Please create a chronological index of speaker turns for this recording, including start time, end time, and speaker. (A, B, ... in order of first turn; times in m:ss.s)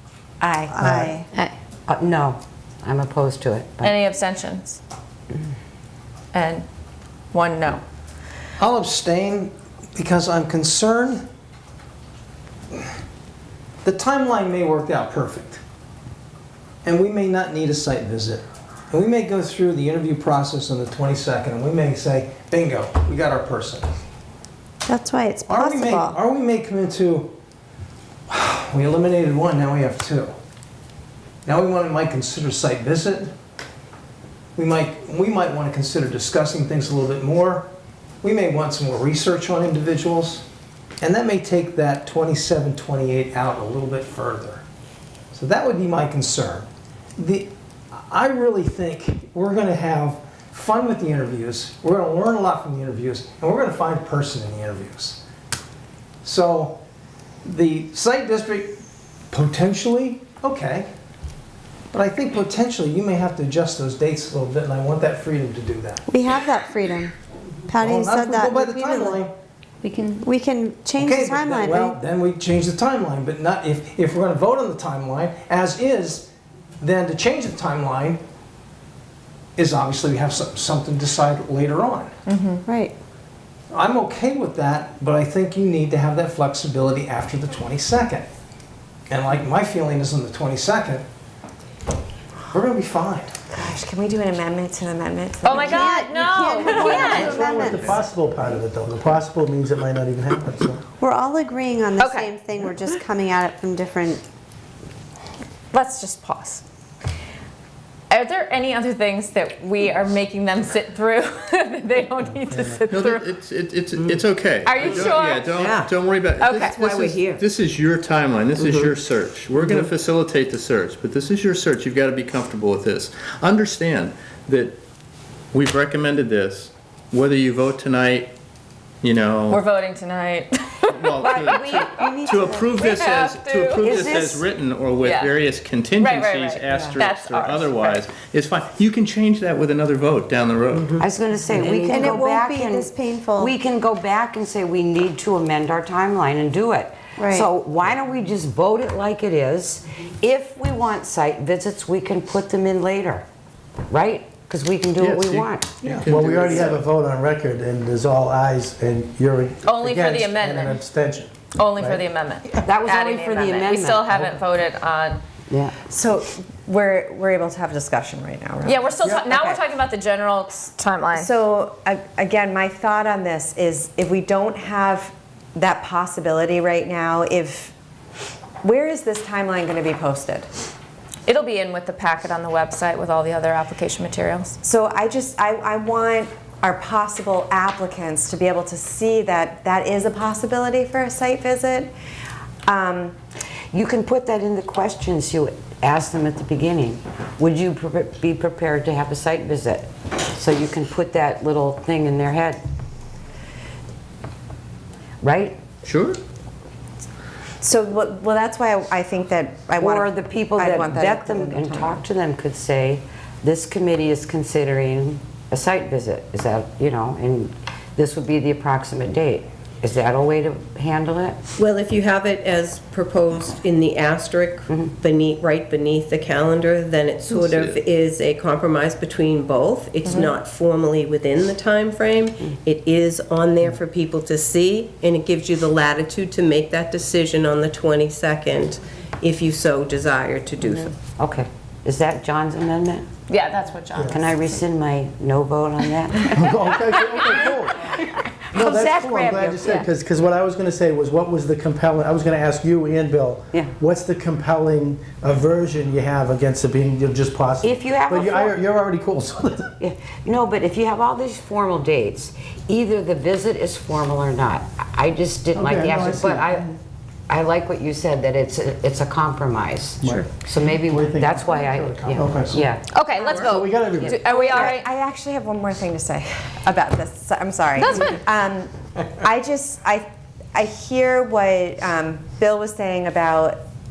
0:00.4-0:00.9 A
0:00.7-0:01.1 B
0:00.9-0:01.2 C
0:01.9-0:04.0 D
0:03.8-0:04.8 E
0:06.3-0:06.6 E
0:07.3-0:07.8 E
0:08.6-0:11.2 F
0:13.8-0:15.6 F
0:16.8-0:23.9 F
0:24.8-0:26.2 C
0:25.5-0:27.3 F
0:28.3-0:30.3 F
0:31.4-0:33.3 F
0:34.6-0:37.7 F
0:38.2-0:40.4 F
0:41.0-0:44.6 F
0:45.3-0:55.2 F
0:56.2-0:56.8 F
0:57.4-0:58.8 F
0:59.3-1:00.9 F
1:01.9-1:06.0 F
1:06.1-1:07.1 C
1:07.7-1:09.3 C
1:07.8-1:09.3 F
1:09.8-1:12.0 C
1:11.0-1:16.3 F
1:16.8-1:18.2 F
1:19.6-1:22.1 F
1:22.2-1:22.6 E
1:22.6-1:22.9 C
1:23.7-1:28.3 F
1:29.1-1:31.0 F
1:32.5-1:33.4 F
1:33.5-1:36.0 A
1:35.4-1:37.7 E
1:35.6-1:38.0 C
1:36.7-1:40.8 B
1:41.0-1:44.2 C
1:42.0-1:42.3 E
1:45.7-1:46.6 E
1:48.1-1:53.3 E
1:52.5-1:52.8 B
1:52.9-2:04.8 G
1:53.9-1:54.2 H
1:54.6-1:55.5 E
1:55.5-1:55.9 H
1:56.4-1:56.7 E
1:56.5-1:57.4 H
1:58.6-1:58.9 H
1:59.5-1:59.9 H
2:05.5-2:08.3 G
2:09.0-2:09.6 G
2:09.5-2:11.7 E
2:10.9-2:21.0 G
2:11.2-2:12.7 C
2:12.8-2:14.1 E
2:13.9-2:14.4 D
2:15.0-2:15.3 E
2:16.0-2:18.0 E
2:16.7-2:17.0 H
2:20.7-2:22.1 H
2:21.0-2:33.2 D
2:21.8-2:23.6 C
2:27.2-2:27.5 C
2:33.9-2:35.7 D
2:35.0-2:36.8 G
2:36.0-2:42.0 B
2:39.6-2:40.8 E
2:41.6-2:45.2 E
2:42.6-2:44.1 D
2:44.1-2:44.4 B
2:45.9-2:49.6 A
2:48.6-2:51.3 E
2:51.1-2:57.7 A
2:58.6-3:00.5 A
3:01.2-3:04.6 E
3:04.6-3:11.9 A
3:12.7-3:13.2 A
3:13.7-3:22.6 D
3:25.2-3:25.6 D
3:25.8-3:26.2 G
3:27.6-3:32.0 A
3:29.8-3:41.4 D
3:41.6-4:01.1 H
3:47.3-3:47.8 G
3:50.0-3:50.3 A
4:01.2-4:03.1 D
4:03.3-4:04.5 E
4:04.1-4:06.4 D
4:06.3-4:07.9 B
4:08.5-4:19.7 B
4:08.6-4:09.8 D
4:17.6-4:18.5 D
4:19.8-4:26.6 D
4:25.6-4:26.7 B
4:27.3-4:32.8 D
4:30.0-4:32.7 B
4:32.9-4:34.9 E
4:33.1-4:33.6 A
4:33.3-4:34.2 B
4:34.1-4:43.6 A
4:37.8-4:38.2 E